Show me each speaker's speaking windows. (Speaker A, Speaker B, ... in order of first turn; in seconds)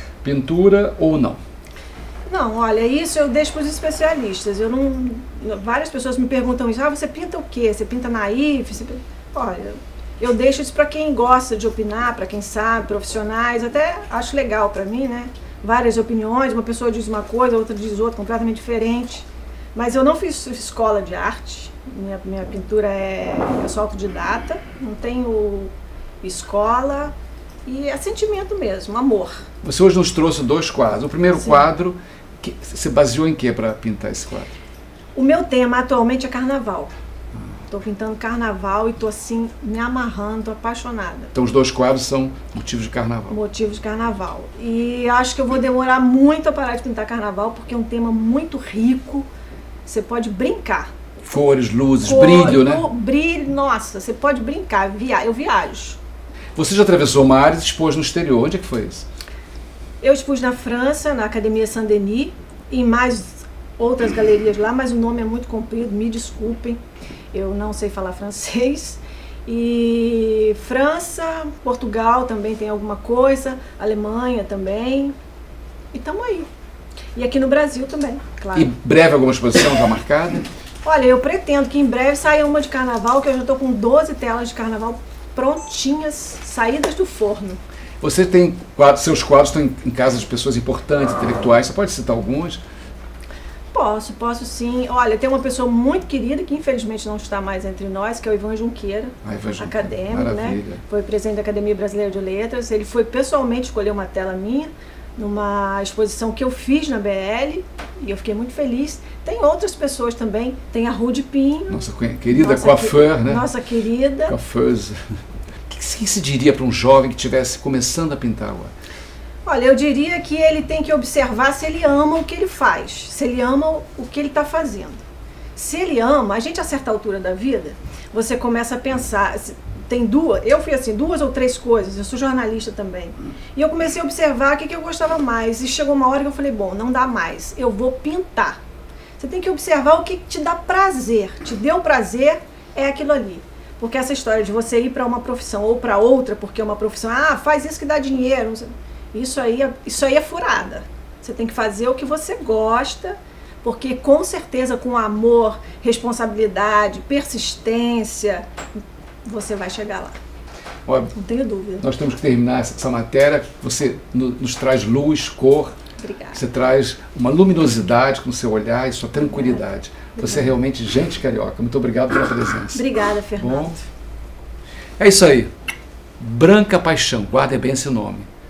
Speaker A: 0.2-1.4, 29.6-34.5, 41.3-43.4, 51.2-52.9, 56.5-59.1, 78.5-80.5, 88.0-92.6, 99.2-100.8, 111.7-113.5, 114.3-115.0, 115.7-118.7, 160.9-161.1, 161.8-165.7, 166.3-172.8, 173.4-173.8, 175.0-175.5, 176.2-178.3
Speaker B: 2.3-27.1, 27.7-29.4, 31.4-31.7, 35.1-36.9, 37.7-41.3, 43.3-49.3, 49.9-50.9, 52.0-56.0, 60.0-66.8, 67.3-75.2, 75.9-76.5, 77.2-78.7, 80.8-87.6, 93.7-114.4, 119.5-125.0, 125.5-138.6, 139.2-158.5, 159.2-160.2, 161.1-161.8, 166.0-166.4, 169.3-169.6, 170.2-170.5, 172.7-173.8